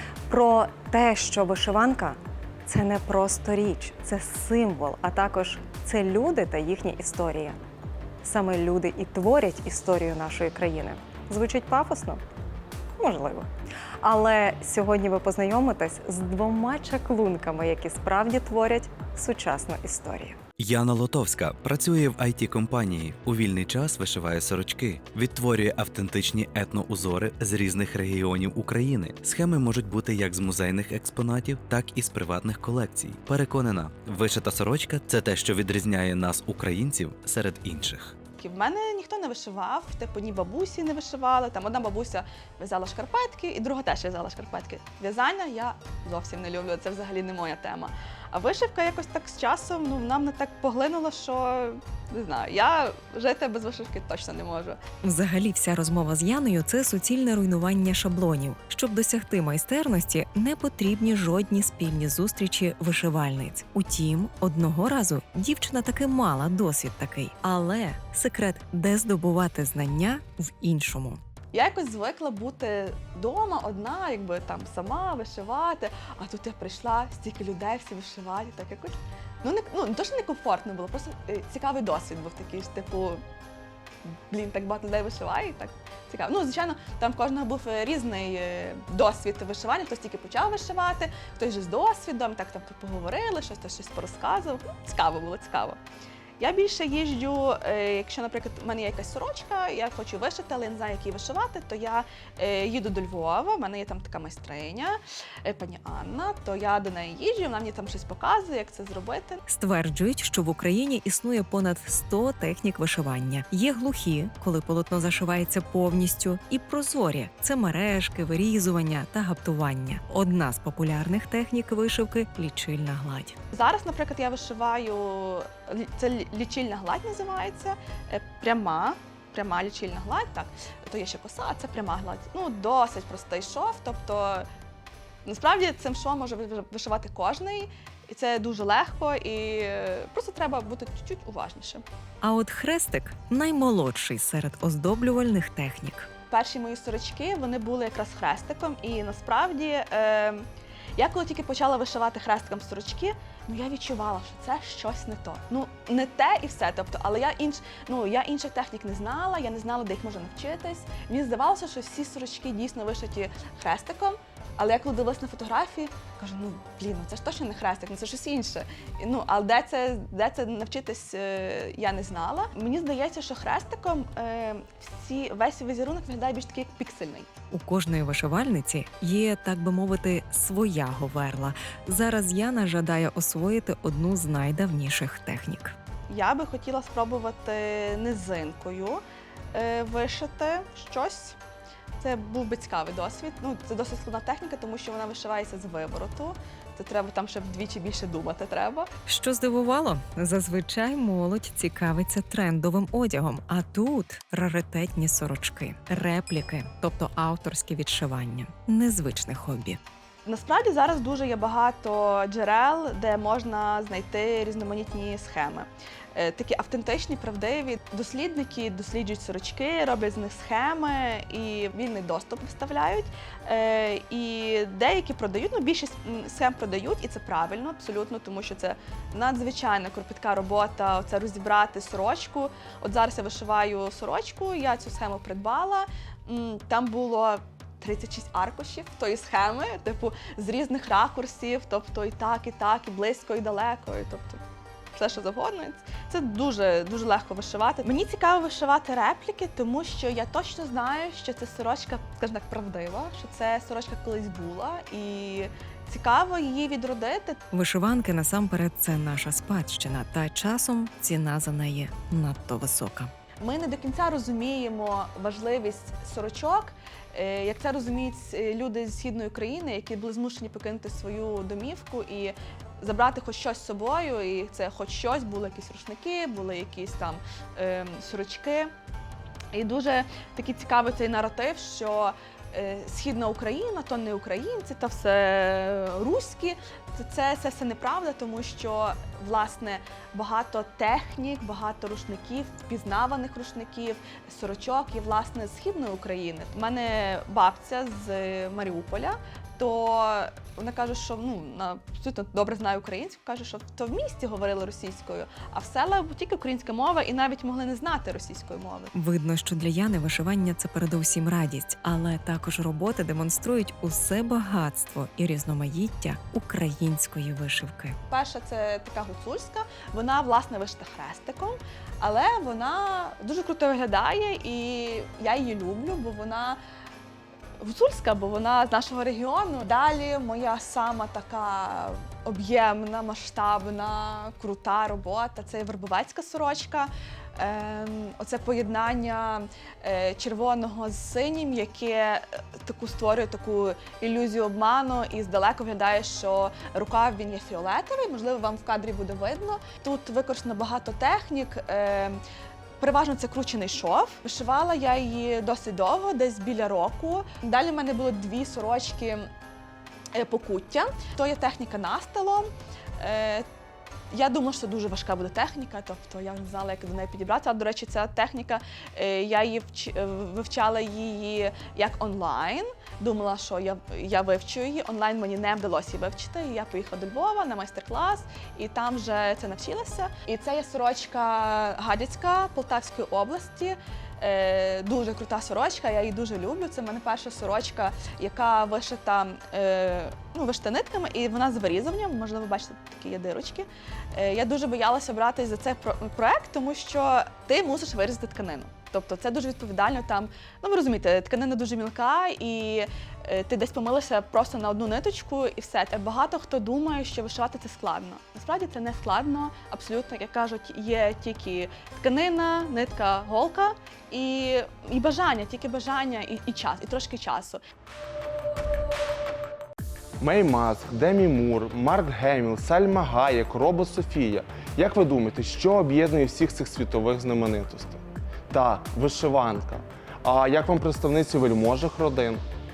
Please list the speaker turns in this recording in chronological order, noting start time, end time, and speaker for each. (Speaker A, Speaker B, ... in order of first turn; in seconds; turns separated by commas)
Speaker A: 0.3-7.6, Speaker B: 0.3-1.1, Speaker B: 1.6-2.1, Speaker B: 3.4-7.4, Speaker B: 8.2-12.2, Speaker A: 8.2-12.2, Speaker B: 13.0-13.3, Speaker A: 13.1-13.5, Speaker B: 14.0-20.3, Speaker A: 14.2-20.3, Speaker C: 20.6-38.1, Speaker D: 38.4-54.8, Speaker B: 55.0-71.2, Speaker D: 71.5-83.2, Speaker D: 84.3-95.8, Speaker D: 96.4-109.4, Speaker B: 109.5-123.3, Speaker D: 123.5-134.4, Speaker D: 135.2-141.8, Speaker B: 142.2-146.1, Speaker D: 146.3-150.4, Speaker D: 150.9-177.3, Speaker B: 177.5-185.8, Speaker D: 186.1-189.0, Speaker D: 189.5-191.4, Speaker D: 192.0-198.9, Speaker B: 199.1-209.8, Speaker D: 210.2-244.4, Speaker D: 244.9-257.4, Speaker B: 257.5-263.1, Speaker D: 263.4-278.7, Speaker D: 279.5-308.9, Speaker B: 308.9-318.0, Speaker D: 318.1-326.6, Speaker D: 327.6-352.2, Speaker D: 352.8-359.3, Speaker D: 360.1-363.4, Speaker D: 364.1-417.6, Speaker E: 420.2-432.4